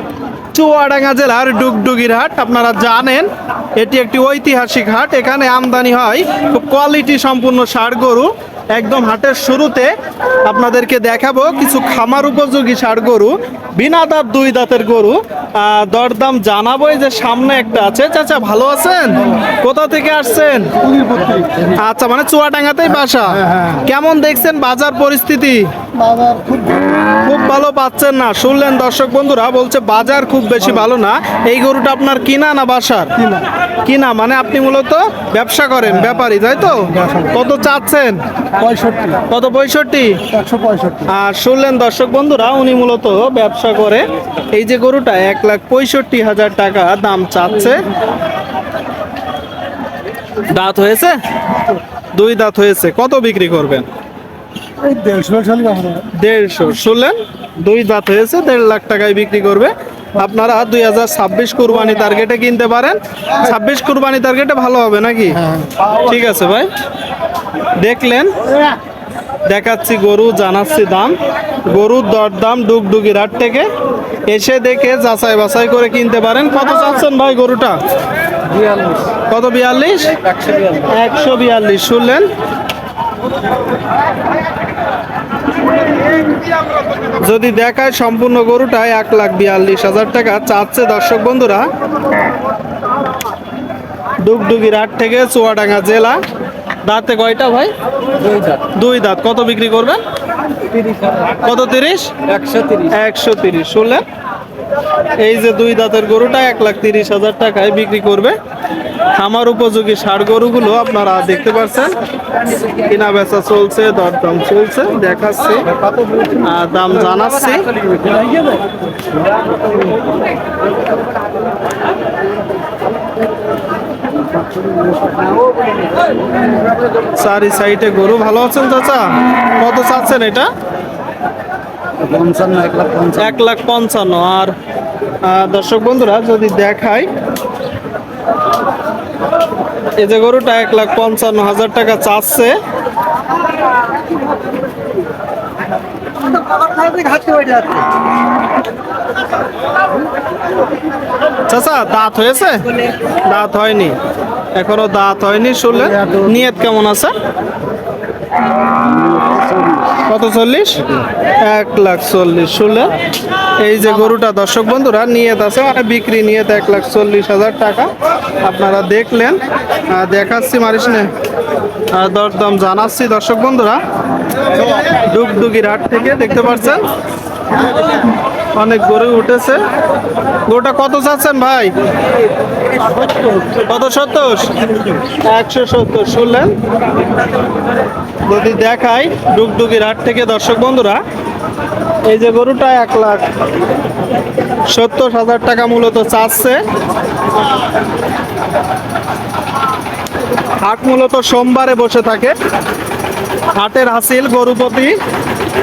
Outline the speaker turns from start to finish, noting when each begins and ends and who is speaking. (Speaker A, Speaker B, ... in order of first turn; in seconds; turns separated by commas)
Speaker A: 0.5-9.9, Speaker A: 10.5-20.7, Speaker B: 21.1-21.5, Speaker A: 21.6-25.7, Speaker B: 26.1-26.8, Speaker A: 27.2-33.2, Speaker A: 33.9-38.2, Speaker B: 38.6-39.2, Speaker A: 39.2-40.2, Speaker B: 40.5-41.0, Speaker A: 41.0-47.8, Speaker A: 50.5-51.2, Speaker A: 52.1-53.9, Speaker B: 54.9-56.0, Speaker A: 56.0-66.7, Speaker A: 67.8-68.4, Speaker A: 69.5-73.7, Speaker A: 74.3-77.8, Speaker B: 78.5-79.0, Speaker A: 79.3-82.3, Speaker B: 80.4-80.8, Speaker A: 87.2-91.7, Speaker A: 94.2-96.2, Speaker A: 96.8-97.7, Speaker A: 98.6-100.0, Speaker A: 101.4-102.3, Speaker B: 102.4-102.8, Speaker A: 102.8-104.0, Speaker A: 105.2-108.4, Speaker A: 109.2-112.0, Speaker A: 112.8-115.7, Speaker A: 116.4-117.7, Speaker B: 124.6-125.3, Speaker A: 127.2-130.5, Speaker B: 132.0-133.2, Speaker A: 133.2-134.5, Speaker A: 135.2-137.1, Speaker A: 140.0-142.6, Speaker B: 146.6-147.8, Speaker A: 151.5-152.7, Speaker A: 153.2-154.0, Speaker A: 154.6-157.1, Speaker B: 159.3-159.6, Speaker A: 160.0-163.0, Speaker A: 163.6-167.9, Speaker A: 168.4-171.1, Speaker A: 171.9-173.8, Speaker A: 174.9-176.9, Speaker A: 178.6-179.7, Speaker A: 180.5-181.7, Speaker A: 183.6-184.6, Speaker A: 185.2-186.6, Speaker A: 188.3-191.0, Speaker A: 192.1-193.3, Speaker A: 194.7-196.6, Speaker A: 200.6-202.3, Speaker A: 203.6-205.0